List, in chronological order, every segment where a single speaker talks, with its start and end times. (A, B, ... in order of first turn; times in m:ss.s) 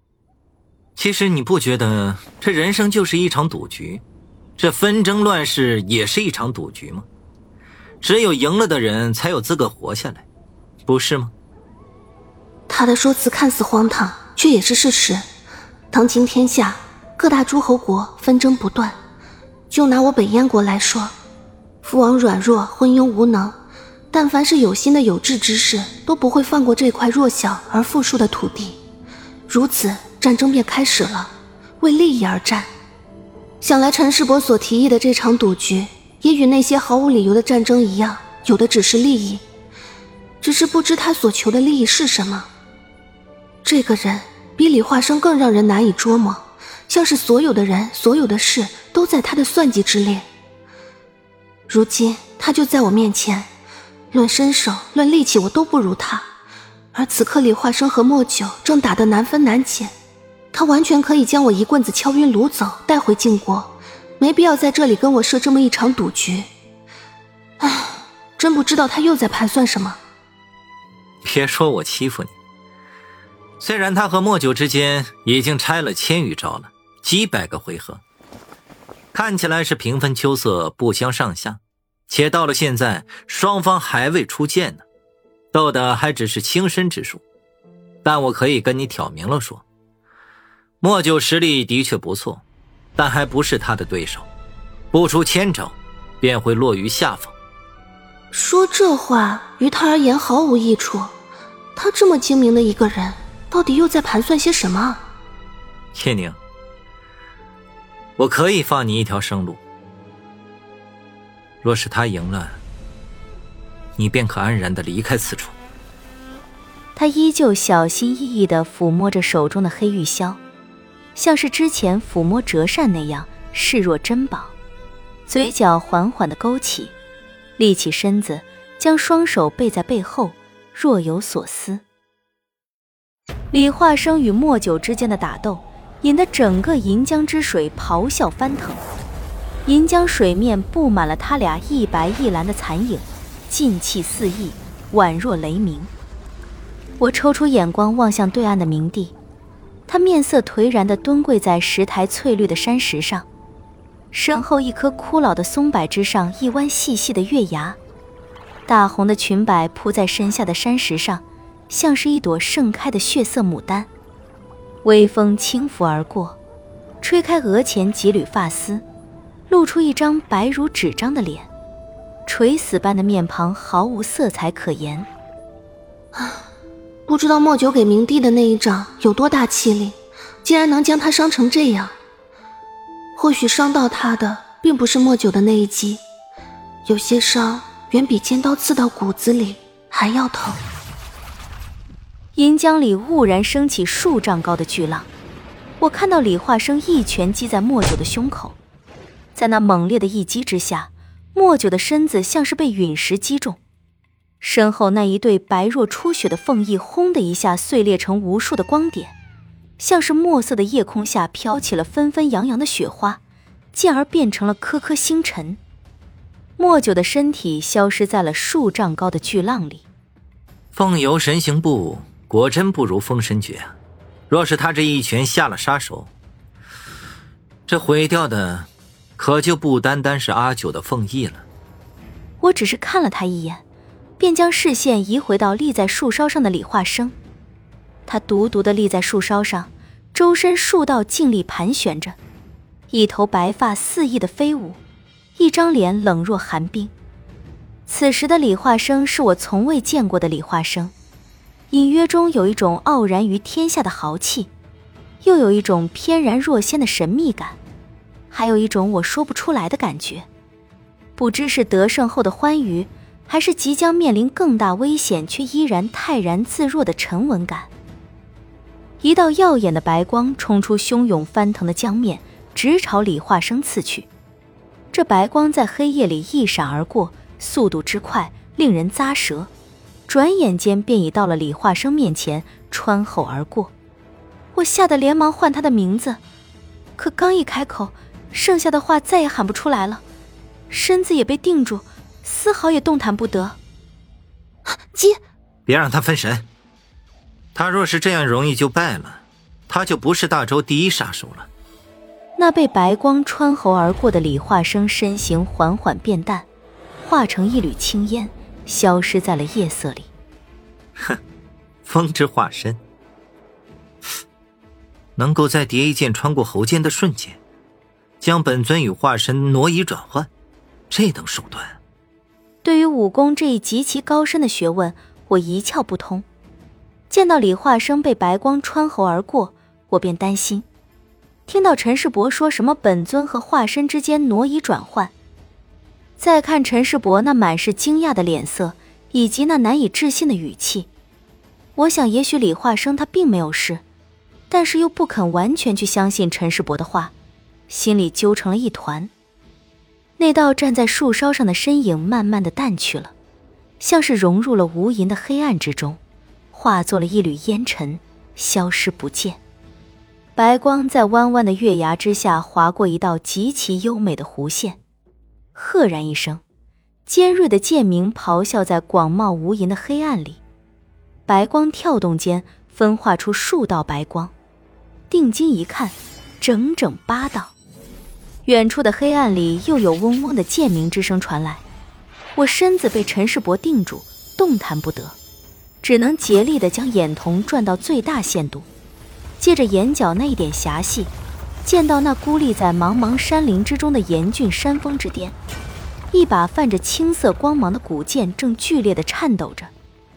0:01.0-0:04.0 A
0:04.6-0:07.0 A
0:08.0-0:10.2 A
0:10.8-0:11.3 A
0:12.7-0:15.2 B
0:15.9-0:19.0 B
0:19.7-0:21.1 B
0:21.8-0:23.6 B
0:24.1-0:28.8 B
0:29.5-0:32.7 B
0:33.6-0:39.4 B
0:40.4-0:42.5 B
0:43.6-0:50.2 B
0:51.7-0:53.5 B
0:54.1-0:56.3 B
0:56.9-0:59.9 B
1:00.5-1:06.5 B
1:07.6-1:10.0 B
1:11.2-1:12.3 A
1:13.6-1:18.0 A
1:19.1-1:24.8 A
1:25.5-1:27.2 A
1:28.0-1:29.6 A
1:30.8-1:32.4 A
1:33.0-1:34.3 A
1:34.9-1:37.3 A
1:38.3-1:41.1 B
1:41.8-1:45.0 B
1:45.9-1:46.4 A
1:48.2-1:49.6 A
1:51.6-1:52.6 A
1:54.0-1:55.5 A
1:56.9-2:00.4 C
2:01.1-2:04.5 C
2:05.3-2:06.9 C
2:07.6-2:11.8 C
2:13.5-2:18.8 C
2:19.6-2:25.9 C
2:27.0-2:29.1 C
2:29.9-2:33.3 C
2:34.1-2:37.8 C
2:38.6-2:43.9 C
2:44.8-2:46.4 C
2:47.0-2:48.8 C
2:49.5-2:51.5 C
2:52.2-2:55.1 C
2:56.1-2:56.4 B
2:57.1-3:01.9 B
3:03.2-3:06.0 B
3:06.8-3:10.6 B
3:12.3-3:15.1 C
3:15.8-3:18.6 C
3:19.3-3:23.6 C
3:24.4-3:29.1 C
3:29.8-3:33.2 C
3:33.7-3:35.6 C
3:36.6-3:39.8 C
3:40.7-3:43.7 A
3:44.3-3:46.1 A
3:47.7-3:51.4 A
3:52.4-3:53.6 C
3:54.2-3:57.1 C
3:58.0-4:02.2 C
4:02.9-4:04.8 C
4:05.4-4:06.9 C
4:07.8-4:10.9 C
4:11.7-4:14.5 C
4:15.2-4:17.6 C
4:18.3-4:20.3 C
4:21.2-4:27.7 C
4:29.0-4:34.1 C
4:34.9-4:39.5 C
4:40.1-4:43.7 C
4:44.5-4:46.2 C
4:47.0-4:50.0 C
4:50.7-4:53.6 C
4:54.9-4:55.2 B
4:55.6-4:56.4 A
4:57.5-5:01.5 A
5:02.4-5:06.4 C
5:07.0-5:10.1 C
5:11.8-5:12.8 A
5:15.2-5:17.4 A
5:18.2-5:20.3 A
5:20.9-5:21.8 A
5:22.6-5:26.2 C
5:27.1-5:30.6 C
5:31.5-5:35.1 C
5:36.2-5:40.9 C
5:41.8-5:43.8 C
5:44.5-5:47.1 C
5:47.7-5:49.1 C
5:50.2-5:53.1 C
5:53.8-5:56.0 C
5:56.5-5:59.4 C
6:00.4-6:04.8 C
6:05.5-6:06.4 C
6:07.0-6:10.4 C
6:11.3-6:14.3 C
6:15.1-6:17.5 C
6:18.4-6:21.6 C
6:22.3-6:25.2 C
6:25.8-6:28.7 C
6:29.4-6:31.1 C
6:31.6-6:35.4 C
6:36.1-6:39.7 C